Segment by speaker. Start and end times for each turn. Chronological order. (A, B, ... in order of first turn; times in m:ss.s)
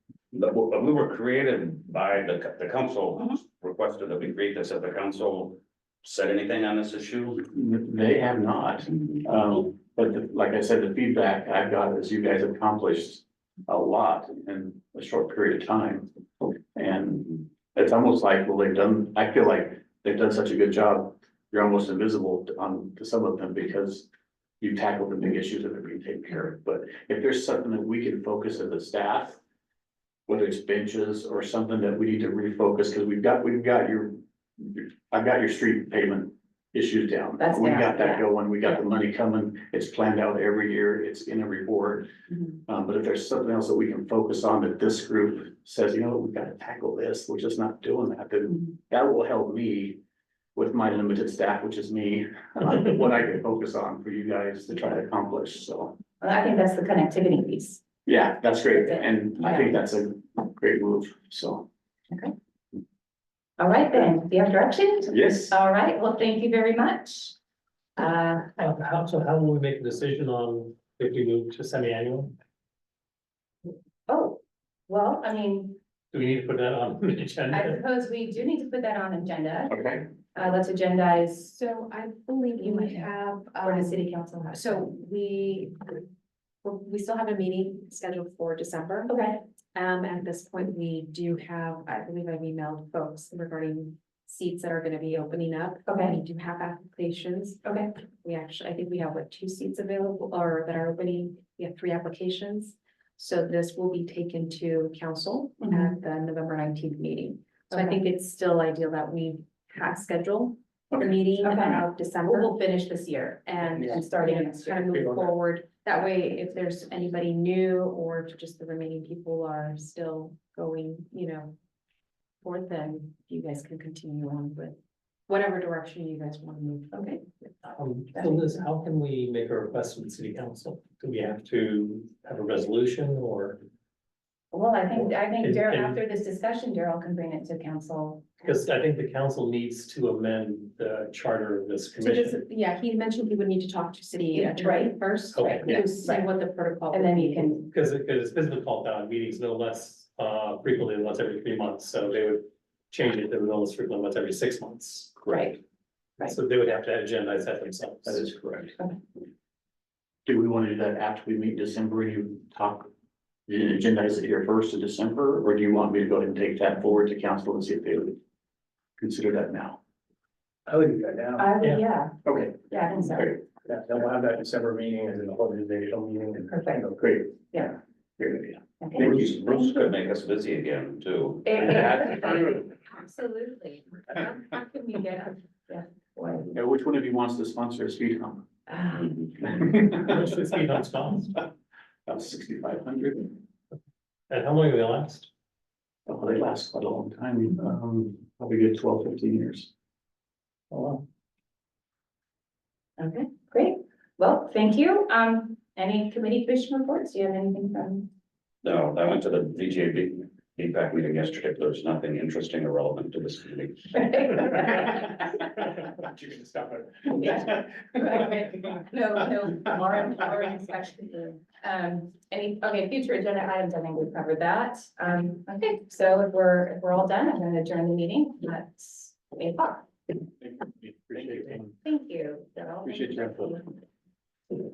0:00.3-0:07.5 A
0:07.5-0:16.1 B
0:16.7-0:24.1 B
0:24.6-0:29.4 B
0:30.3-0:42.1 B
0:37.4-0:38.8 C
0:42.3-0:42.6 C
0:42.7-0:50.0 B
0:50.6-0:56.0 B
0:56.2-0:57.8 C
0:58.0-1:01.7 B
0:58.7-0:59.8 C
1:03.6-1:07.4 C
1:05.1-1:05.5 B
1:08.0-1:08.5 C
1:08.6-1:12.3 D
1:14.1-1:15.8 C
1:16.1-1:17.8 D
1:17.5-1:21.6 C
1:19.7-1:20.0 B
1:21.6-1:26.0 E
1:22.6-1:24.9 C
1:26.6-1:29.1 E
1:29.1-1:29.4 C
1:29.7-1:37.7 E
1:35.8-1:36.2 C
1:37.6-1:37.9 C
1:38.2-2:01.5 E
1:45.6-1:46.0 C
1:47.7-1:48.0 C
1:50.9-1:51.2 B
1:51.4-1:55.3 C
2:02.4-2:04.8 E
2:05.3-2:07.3 E
2:06.9-2:07.2 C
2:07.8-2:13.6 D
2:08.1-2:08.5 C
2:14.5-2:18.5 C
2:14.9-2:16.0 D
2:18.4-2:22.4 D
2:22.0-2:27.5 E
2:24.3-2:26.3 C
2:25.3-2:25.8 D
2:26.9-2:27.7 C
2:27.7-2:35.2 D
2:35.3-2:35.6 C
2:36.2-2:38.3 D
2:38.0-2:38.7 B
2:40.2-2:42.9 B
2:43.5-2:48.2 B
2:49.0-2:49.8 B
2:50.7-2:51.5 F
2:51.4-2:53.4 C
2:52.2-2:52.5 F
2:53.6-2:57.4 F
2:56.5-2:56.8 C
2:58.2-2:59.4 B
2:58.8-2:59.9 C
2:59.0-3:01.8 A
3:01.4-3:06.5 C
3:01.6-3:02.6 B
3:06.5-3:08.4 B
3:08.7-3:09.4 C
3:09.4-3:10.3 B
3:09.7-3:11.4 D
3:12.0-3:13.4 B
3:14.3-3:15.3 D
3:16.1-3:19.7 B
3:20.7-3:21.0 F
3:23.0-3:28.1 C
3:28.6-3:34.6 A
3:33.9-3:35.7 C
3:36.2-3:37.1 F
3:37.0-3:49.9 C
3:50.4-3:51.7 B
3:51.8-3:53.8 C
3:52.8-3:53.6 B